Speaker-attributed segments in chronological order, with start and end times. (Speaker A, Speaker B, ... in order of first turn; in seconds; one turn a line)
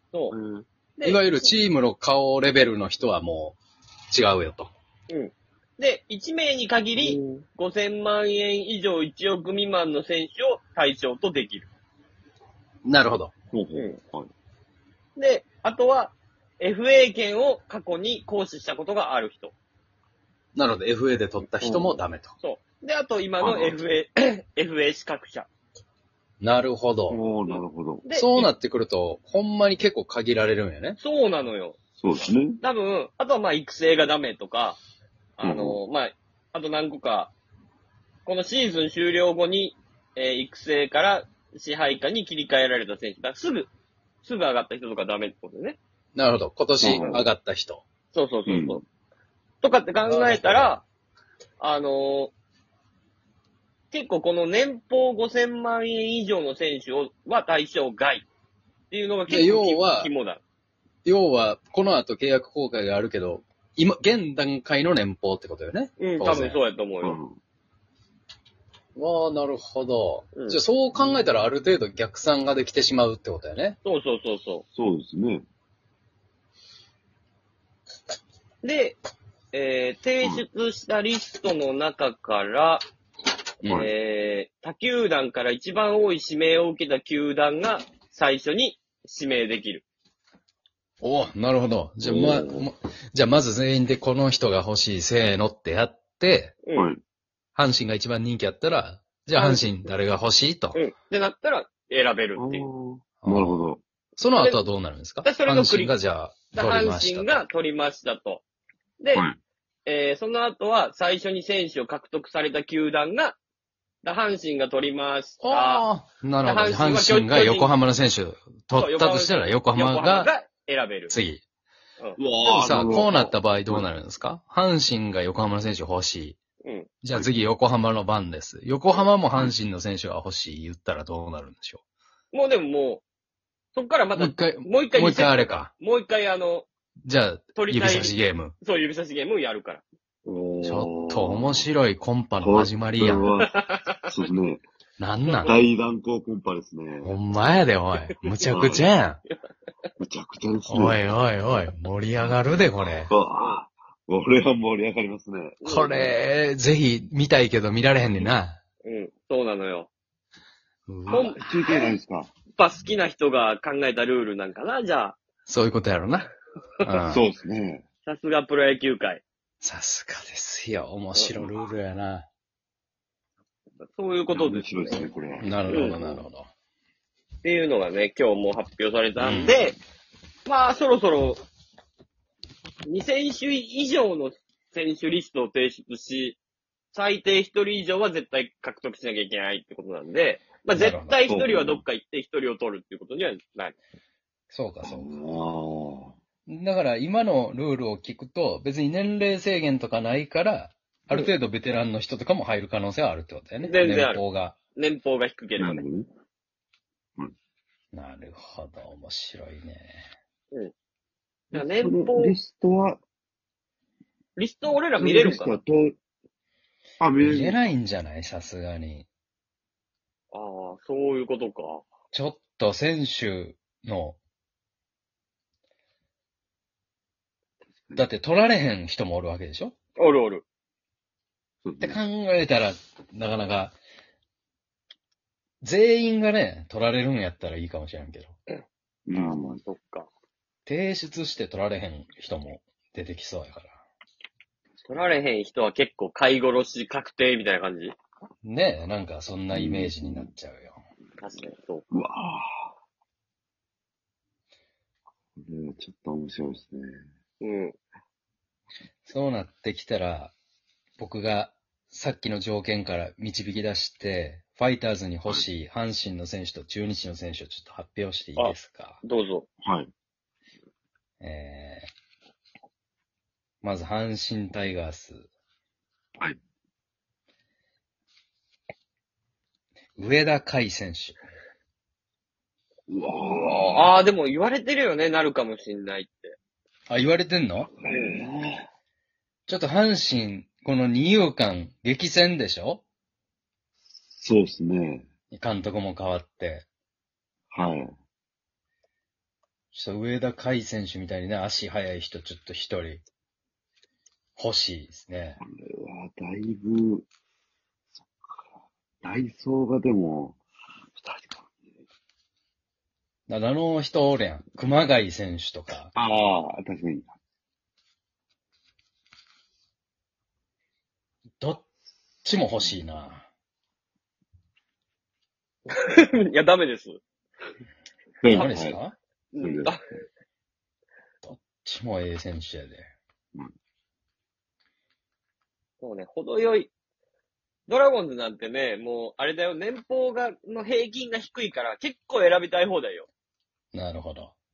Speaker A: 0.3-0.6
Speaker B: 1.0-1.5
Speaker C: 1.0-3.6
Speaker C: 4.1-4.7
Speaker B: 5.1-11.7
Speaker A: 7.0-7.4
Speaker C: 12.8-13.3
Speaker A: 13.5-14.3
Speaker B: 15.2-19.5
Speaker C: 20.5-22.3
Speaker B: 21.7-25.5
Speaker A: 23.4-23.8
Speaker C: 26.4-27.2
Speaker A: 27.1-28.0
Speaker B: 27.5-28.5
Speaker C: 28.1-31.0
Speaker B: 31.0-31.8
Speaker A: 32.0-32.6
Speaker B: 32.6-34.8
Speaker B: 35.4-37.3
Speaker A: 35.4-35.8
Speaker B: 38.2-43.7
Speaker B: 44.2-45.8
Speaker C: 46.1-47.8
Speaker A: 46.8-47.2
Speaker B: 48.1-48.8
Speaker A: 48.5-48.8
Speaker B: 49.6-50.8
Speaker C: 50.0-50.8
Speaker B: 51.6-52.3
Speaker B: 53.9-58.2
Speaker B: 58.9-60.4
Speaker C: 59.3-60.1
Speaker C: 61.0-66.6
Speaker B: 66.0-67.2
Speaker A: 67.0-67.4
Speaker C: 69.0-73.8
Speaker B: 70.3-70.6
Speaker B: 73.8-74.6
Speaker A: 74.7-75.4
Speaker B: 78.6-79.0
Speaker B: 79.5-82.8
Speaker A: 83.6-83.9
Speaker B: 83.7-89.8
Speaker C: 91.0-96.5
Speaker A: 92.0-92.7
Speaker A: 96.7-97.0
Speaker C: 97.5-100.8
Speaker B: 99.3-99.7
Speaker B: 100.7-102.7
Speaker A: 102.4-103.8
Speaker C: 103.2-107.4
Speaker B: 105.2-105.9
Speaker B: 106.5-108.4
Speaker B: 109.0-109.2
Speaker B: 109.8-113.4
Speaker B: 114.0-115.9
Speaker C: 115.4-120.3
Speaker B: 116.4-117.7
Speaker B: 118.7-121.1
Speaker C: 121.1-121.4
Speaker A: 122.2-123.9
Speaker C: 122.5-126.4
Speaker B: 126.6-126.9
Speaker C: 127.0-131.8
Speaker B: 132.3-133.0
Speaker B: 133.7-136.7
Speaker C: 134.2-135.7
Speaker C: 137.0-138.5
Speaker B: 137.5-139.8
Speaker A: 140.2-141.7
Speaker C: 140.6-143.3
Speaker A: 142.4-144.6
Speaker B: 143.5-144.0
Speaker C: 145.0-145.6
Speaker B: 145.2-145.5
Speaker A: 145.4-147.1
Speaker C: 147.0-149.2
Speaker A: 148.4-148.8
Speaker A: 150.0-151.0
Speaker C: 150.7-153.1
Speaker A: 153.1-155.6
Speaker B: 155.6-156.1
Speaker C: 155.6-158.6
Speaker B: 158.8-159.9
Speaker C: 160.9-161.8
Speaker A: 161.1-162.3
Speaker B: 161.1-161.4
Speaker B: 162.6-165.2
Speaker C: 165.4-166.3
Speaker C: 166.8-167.2
Speaker A: 167.1-167.8
Speaker B: 168.1-169.2
Speaker C: 169.6-172.3
Speaker B: 173.9-175.1
Speaker A: 174.3-176.1
Speaker C: 175.4-176.5
Speaker B: 175.7-176.2
Speaker B: 177.4-179.8
Speaker C: 179.2-179.6
Speaker B: 180.4-181.4
Speaker B: 182.8-186.4
Speaker B: 186.9-193.8
Speaker C: 190.7-191.2
Speaker A: 191.3-191.8
Speaker C: 194.5-195.1
Speaker A: 194.8-196.1
Speaker C: 196.5-204.6
Speaker B: 203.6-204.2
Speaker B: 204.7-205.8
Speaker A: 205.6-206.1
Speaker C: 207.9-210.0
Speaker B: 211.5-212.3
Speaker A: 211.5-213.0
Speaker B: 214.3-215.5
Speaker A: 215.0-215.9
Speaker A: 217.0-217.6
Speaker C: 217.2-219.1
Speaker B: 220.3-221.8
Speaker C: 222.1-224.2
Speaker A: 227.7-228.1
Speaker C: 227.9-229.7
Speaker B: 230.0-230.4
Speaker A: 231.6-232.0
Speaker C: 231.8-233.8
Speaker C: 235.6-238.3
Speaker A: 239.1-239.6
Speaker B: 239.1-240.1
Speaker C: 240.7-243.7
Speaker B: 244.8-247.9
Speaker C: 248.4-250.8
Speaker A: 249.5-250.3
Speaker B: 251.2-251.8
Speaker A: 251.9-252.7
Speaker A: 255.3-256.9
Speaker B: 257.4-257.8
Speaker C: 259.0-260.3
Speaker C: 261.0-269.0
Speaker B: 268.4-269.4
Speaker A: 269.6-269.9
Speaker C: 271.2-271.9
Speaker C: 273.6-275.3
Speaker C: 280.0-281.2
Speaker A: 282.9-283.9
Speaker B: 283.1-286.3
Speaker C: 286.9-287.7
Speaker A: 287.7-288.6
Speaker B: 287.9-288.2
Speaker C: 289.5-292.8
Speaker A: 294.1-295.1
Speaker C: 295.3-296.7
Speaker A: 297.5-297.9
Speaker C: 299.7-303.0
Speaker C: 304.4-305.4
Speaker A: 305.4-307.1
Speaker A: 308.0-308.5
Speaker A: 309.0-310.4
Speaker A: 310.9-311.8
Speaker C: 313.3-315.9
Speaker A: 315.9-317.1
Speaker C: 321.4-321.6
Speaker C: 322.2-323.2
Speaker B: 325.7-327.0
Speaker A: 328.2-328.8
Speaker C: 328.2-328.9
Speaker B: 329.3-329.8
Speaker A: 329.4-329.9
Speaker C: 331.2-332.9
Speaker B: 335.8-336.7
Speaker B: 337.7-343.1
Speaker C: 343.7-344.3